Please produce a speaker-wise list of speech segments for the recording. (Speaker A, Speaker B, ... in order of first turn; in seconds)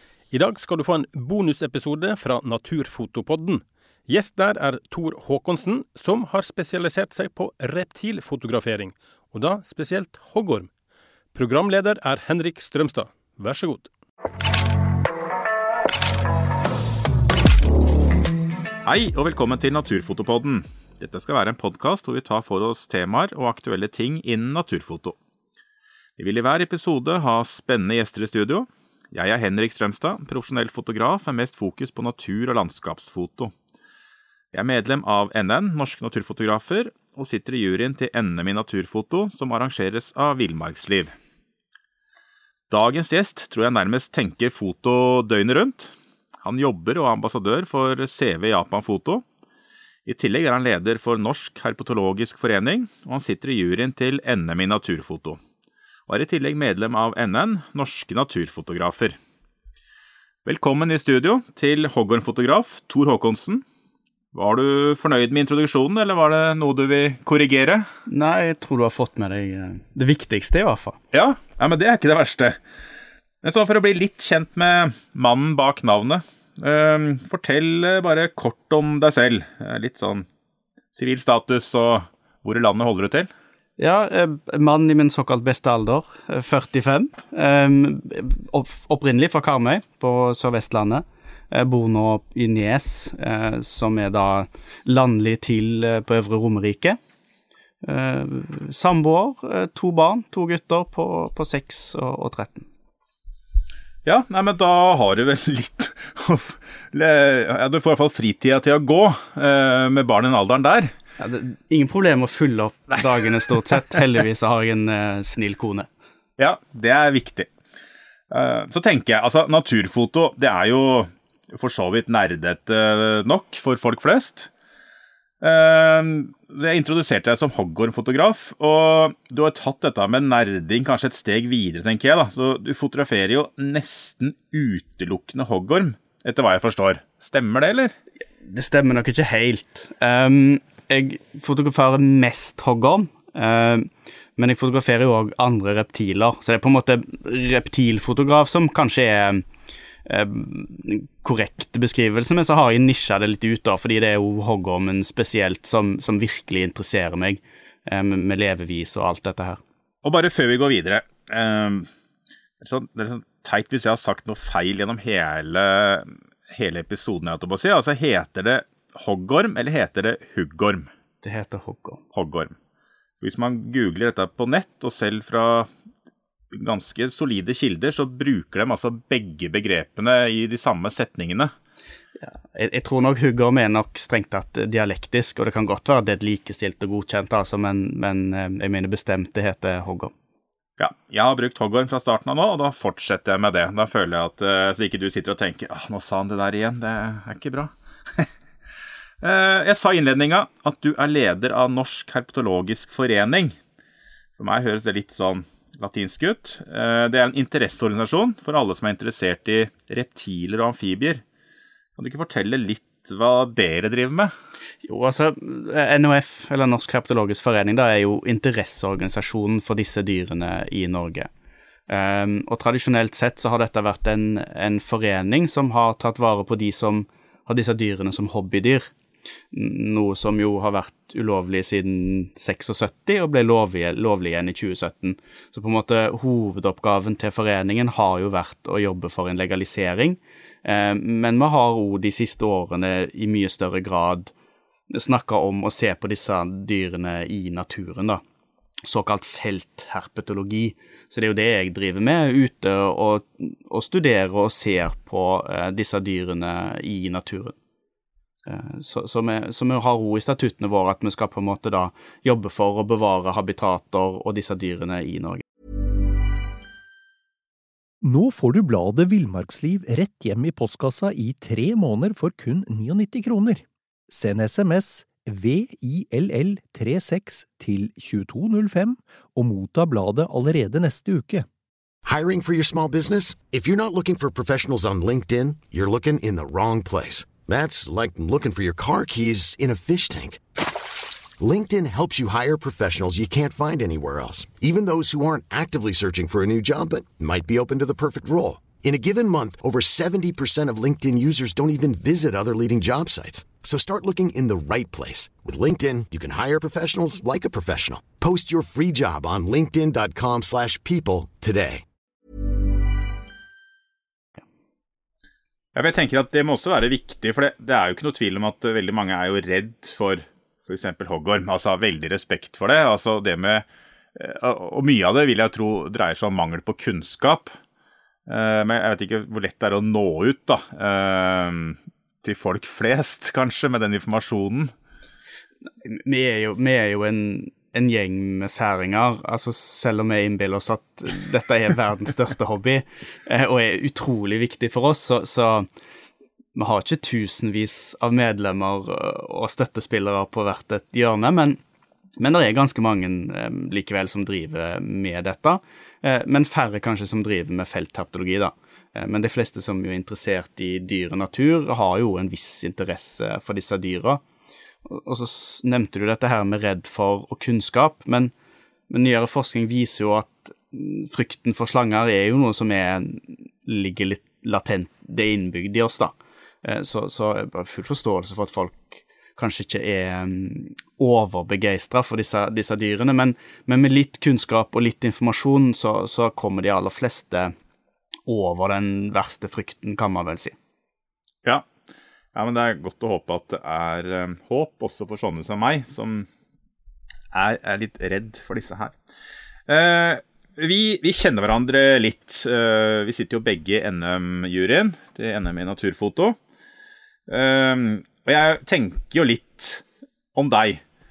Speaker A: 0.3-10.7, 11.3-13.9
Speaker B: 18.8-25.1, 26.2-33.5, 34.5-41.1, 42.7-49.2, 50.0-55.4, 56.1-59.2, 60.4-63.6, 64.3-67.9, 71.1-72.6, 73.4-80.3, 80.9-83.3, 104.0-110.9, 116.4-117.5, 118.3-124.5, 125.4-137.9, 160.0-161.9, 162.6-170.9, 172.1-172.5, 173.2-175.7, 176.5-181.5, 190.8-198.3, 199.2-203.5, 204.4-211.2, 212.0-214.3, 315.7-327.5, 328.3-334.7, 392.3-396.3, 397.3-398.9, 399.7-406.4, 407.3-410.8
Speaker C: 68.1-71.0, 83.8-97.0, 97.8-102.7, 111.2-115.9, 138.4-149.4, 150.0-159.6, 171.2-172.0, 182.2-190.1, 214.8-221.3, 221.9-228.9, 229.5-244.3, 244.9-248.2, 248.8-257.5, 258.5-265.4, 335.8-345.7, 346.5-351.6, 352.2-364.2, 364.9-368.3, 368.9-387.5, 388.3-390.5
Speaker D: 268.0-281.4
Speaker E: 282.0-290.4, 291.4-311.8